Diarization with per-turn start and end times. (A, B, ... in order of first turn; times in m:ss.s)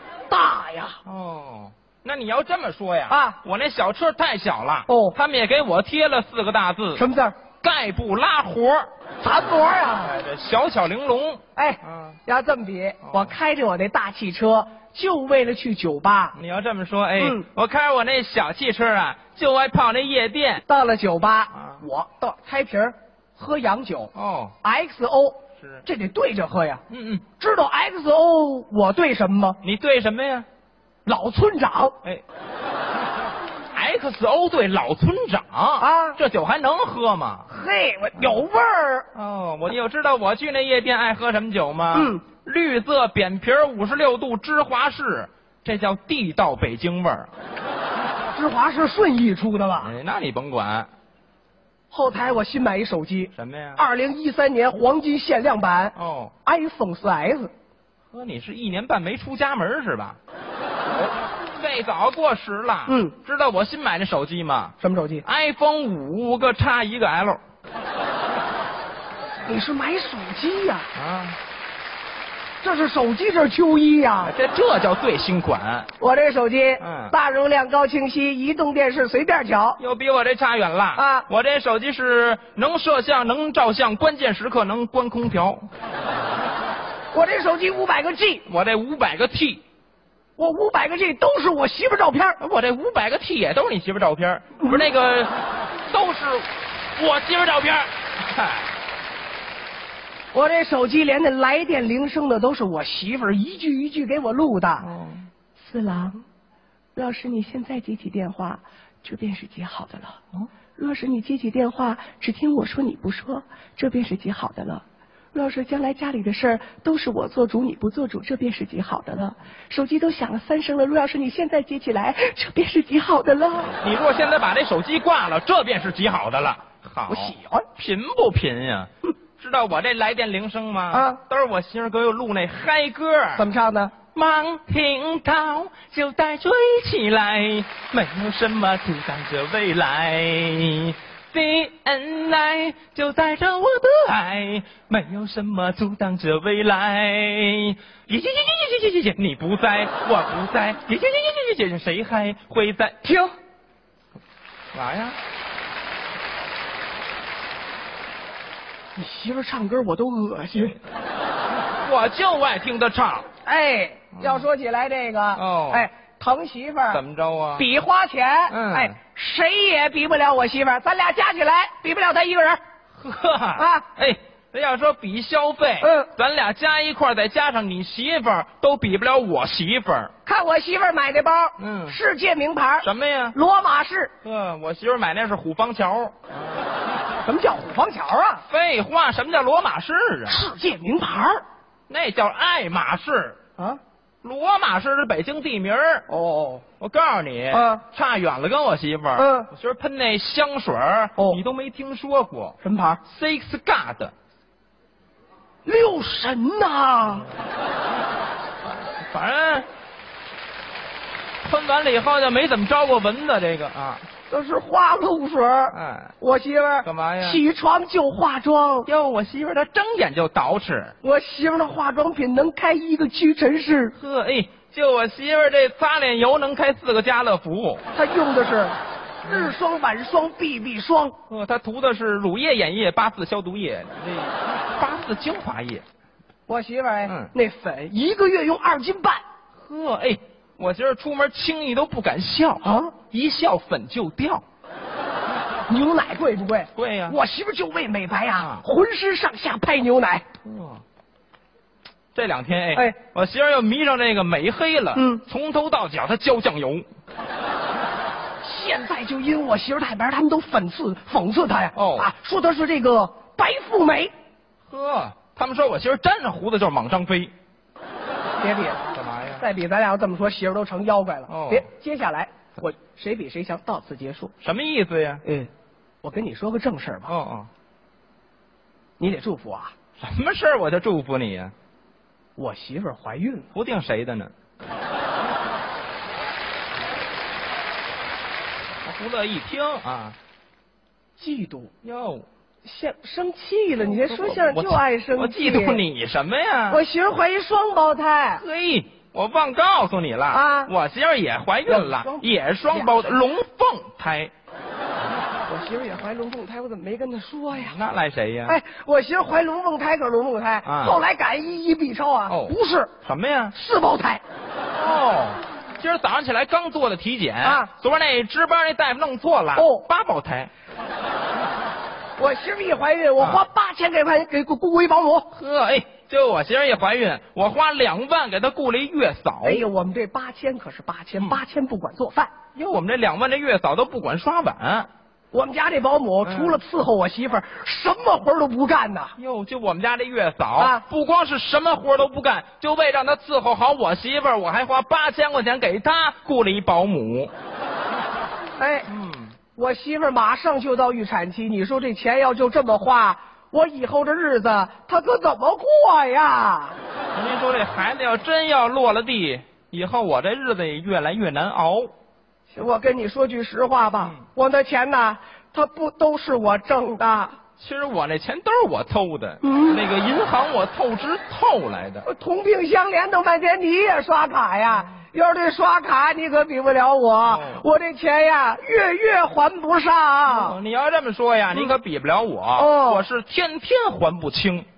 0:00.3-0:01.0 A
0:01.0-0:07.0 B
0:03.1-0:03.4 A
0:04.9-0:05.2 A
0:06.9-0:07.3 A
0:07.6-0:08.9 B
0:09.2-0:10.1 A
0:10.0-0:12.2 B
0:11.5-0:16.4 A
0:13.0-0:13.4 B
0:16.3-0:20.6 B
0:17.2-0:17.4 A
0:20.6-0:24.1 A
0:21.5-0:21.8 B
0:24.1-0:24.6 B
0:24.6-0:26.8 A
0:25.6-0:25.8 B
0:26.9-0:27.2 B
0:27.4-0:29.6 A
0:29.6-0:30.5 B
0:31.0-0:32.0 A
0:33.7-0:37.5 B
0:35.8-0:36.2 A
0:37.5-0:39.1 A
0:38.2-0:38.4 B
0:39.1-0:47.3 B
0:41.9-0:42.2 A
0:48.3-0:49.9 A
0:49.8-0:50.9 B
0:51.9-0:57.5 A
0:53.3-0:53.8 B
0:55.9-0:56.3 B
0:58.1-1:00.2 B
1:01.6-1:07.4 B
1:02.9-1:03.1 A
1:04.8-1:05.2 A
1:09.4-1:10.9 A
1:10.9-1:11.4 B
1:12.6-1:14.3 A
1:14.2-1:15.9 B
1:16.0-1:19.8 A
1:16.8-1:17.2 B
1:19.8-1:25.7 B
1:20.9-1:21.3 A
1:27.1-1:28.4 A
1:28.4-1:29.6 B
1:30.4-1:32.4 A
1:32.4-1:35.3 B
1:35.9-1:38.7 B
1:40.3-1:44.9 A
1:44.8-1:45.3 B
1:45.6-1:46.2 A
1:46.9-1:50.2 A
1:50.8-2:03.8 A
2:03.7-2:13.4 B
2:07.1-2:07.7 A
2:10.9-2:11.2 A
2:13.4-2:13.9 A
2:14.1-2:33.0 B
2:33.0-2:33.3 A
2:34.7-2:35.2 B
2:39.0-2:40.8 A
2:41.8-2:43.3 B
2:43.4-2:47.0 A
2:44.2-2:44.5 B
2:45.3-2:45.9 B
2:46.9-2:47.7 B
2:47.6-2:52.6 A
2:48.5-2:48.9 B
2:53.0-3:00.1 B
2:53.6-2:53.8 A
2:55.8-2:56.1 A
3:00.2-3:04.1 A
3:01.6-3:02.0 B
3:02.8-3:03.4 B
3:04.2-3:06.1 B
3:07.2-3:08.4 A
3:08.5-3:10.4 B
3:10.3-3:11.4 A
3:11.9-3:13.4 B
3:14.2-3:16.1 B
3:16.1-3:16.6 A
3:16.8-3:24.1 B
3:17.5-3:17.8 A
3:19.2-3:19.5 A
3:22.6-3:23.0 A
3:25.6-3:27.3 A
3:28.6-3:29.7 B
3:31.4-3:34.1 B
3:34.3-3:38.9 A
3:35.7-3:36.1 B
3:36.8-3:37.4 B
3:38.8-3:40.9 B
3:41.0-3:43.9 A
3:43.9-3:47.8 B
3:47.9-3:51.2 A
3:49.2-3:49.5 B
3:51.3-3:55.8 B
3:56.5-3:59.2 A
3:57.0-3:57.3 B
3:59.6-4:04.4 B
4:02.6-4:02.9 A
4:05.7-4:10.2 A
4:06.8-4:07.2 B
4:08.4-4:08.6 B
4:10.4-4:10.8 B
4:12.1-4:16.8 B
4:14.9-4:15.2 A
4:18.4-4:24.1 A
4:21.7-4:22.1 B
4:24.7-4:27.3 B
4:28.4-4:34.3 A
4:28.9-4:29.4 B
4:31.3-4:31.6 B
4:34.4-4:35.2 B
4:35.2-4:35.5 A
4:36.0-4:37.1 A
4:37.1-4:37.5 B
4:39.0-4:39.7 A
4:40.0-4:41.5 B
4:42.4-4:43.5 A
4:43.5-4:44.3 B
4:48.8-4:50.2 B
4:51.2-4:51.7 A
4:51.8-4:52.2 B
4:52.6-4:55.8 A
4:53.8-4:56.8 B
4:56.7-4:58.4 A
4:58.3-5:04.3 B
5:00.3-5:00.7 A
5:01.6-5:03.0 A
5:05.5-5:07.8 A
5:07.5-5:08.6 B
5:08.4-5:12.9 A
5:10.6-5:11.0 B
5:12.3-5:13.5 B
5:13.5-5:14.2 A
5:14.8-5:20.5 B
5:17.4-5:17.7 A
5:19.5-5:19.8 A
5:22.2-5:25.3 A
5:23.2-5:23.4 B
5:25.3-5:29.7 B
5:29.4-5:32.3 A
5:32.5-5:34.9 B
5:35.3-5:39.1 A
5:36.2-5:36.6 B
5:39.2-5:47.3 B
5:40.6-5:40.8 A
5:48.6-5:48.9 A
5:48.9-5:49.4 B
5:49.5-5:56.8 A
5:57.1-6:01.9 B
6:02.5-6:07.4 A
6:07.6-6:12.0 B
6:09.4-6:09.8 A
6:12.0-6:20.6 A
6:14.7-6:15.0 B
6:17.2-6:17.6 B
6:20.2-6:24.7 B
6:22.6-6:23.0 A